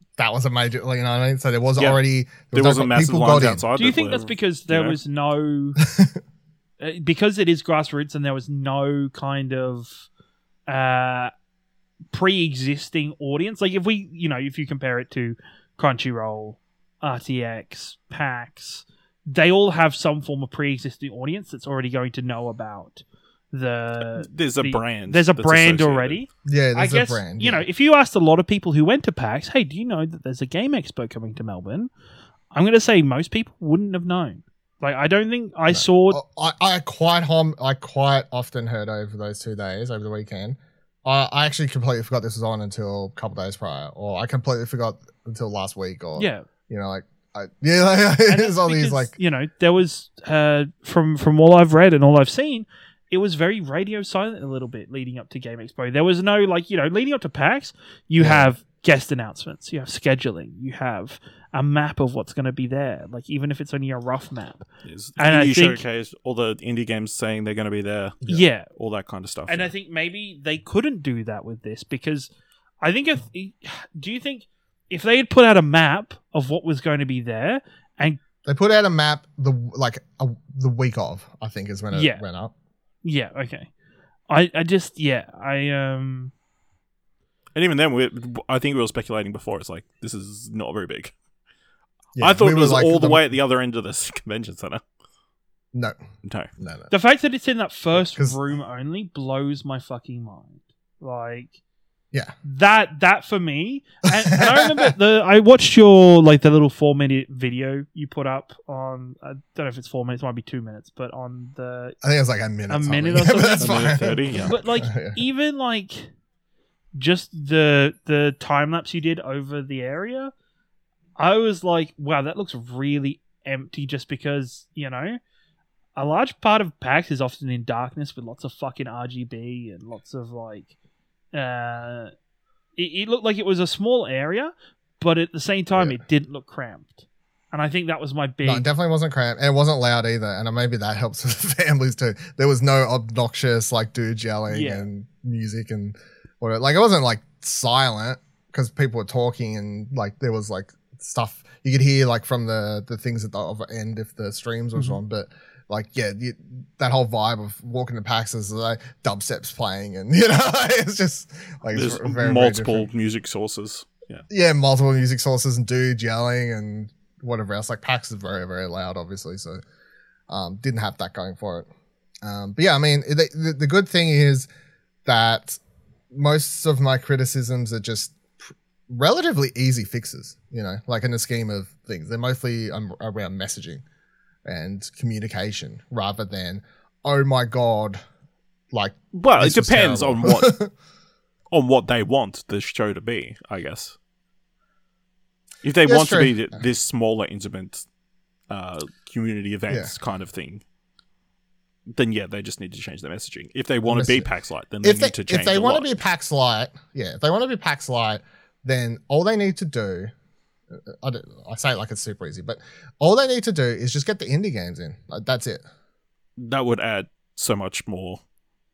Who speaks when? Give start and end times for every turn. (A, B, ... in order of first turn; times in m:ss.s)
0:00.2-0:03.6 A
0:01.8-0:02.0 B
0:02.5-0:05.0 B
0:03.8-0:05.8 C
0:05.9-0:06.1 A
0:06.8-0:10.1 C
0:10.7-0:11.3 C
0:12.1-0:31.9 C
0:24.0-0:26.2 B
0:26.4-0:27.6 A
0:32.5-0:36.2 C
0:35.7-0:49.1 A
0:46.2-0:46.4 C
0:48.3-1:04.6 C
0:58.2-0:58.5 A
1:04.8-1:09.7 B
1:05.2-1:05.8 C
1:08.3-1:08.7 C
1:09.5-1:12.3 C
1:12.8-1:18.2 C
1:18.4-1:22.5 A
1:21.9-1:22.2 C
1:23.0-1:23.7 C
1:24.3-1:26.3 C
1:27.5-1:31.1 B
1:32.2-1:33.3 A
1:32.2-1:34.8 B
1:36.2-1:36.5 B
1:36.6-1:36.9 A
1:36.9-1:41.6 C
1:38.0-1:38.4 A
1:42.4-1:52.0 C
1:44.3-1:44.9 A
1:52.0-1:55.2 A
1:52.7-1:53.8 C
1:53.6-1:54.5 B
1:54.4-1:56.1 C
1:57.0-2:00.3 C
2:01.2-2:05.2 C
2:06.0-2:10.7 C
2:11.3-2:12.1 C
2:12.8-2:18.7 C
2:15.8-2:16.0 A
2:18.4-2:42.8 A
2:24.5-2:24.9 C
2:41.7-2:44.2 B
2:44.3-2:49.6 A
2:50.3-2:51.7 A
2:52.2-2:54.5 A
2:55.0-2:55.6 A
2:56.1-3:03.8 A
3:04.4-3:08.0 A
3:08.7-3:10.7 A
3:09.1-3:10.5 B
3:11.5-3:14.0 B
3:15.6-3:17.8 B
3:15.8-3:16.4 A
3:18.5-3:20.6 B
3:21.9-3:25.9 B
3:23.9-3:24.3 A
3:24.8-3:30.1 A
3:30.7-3:35.6 A
3:36.4-3:38.2 B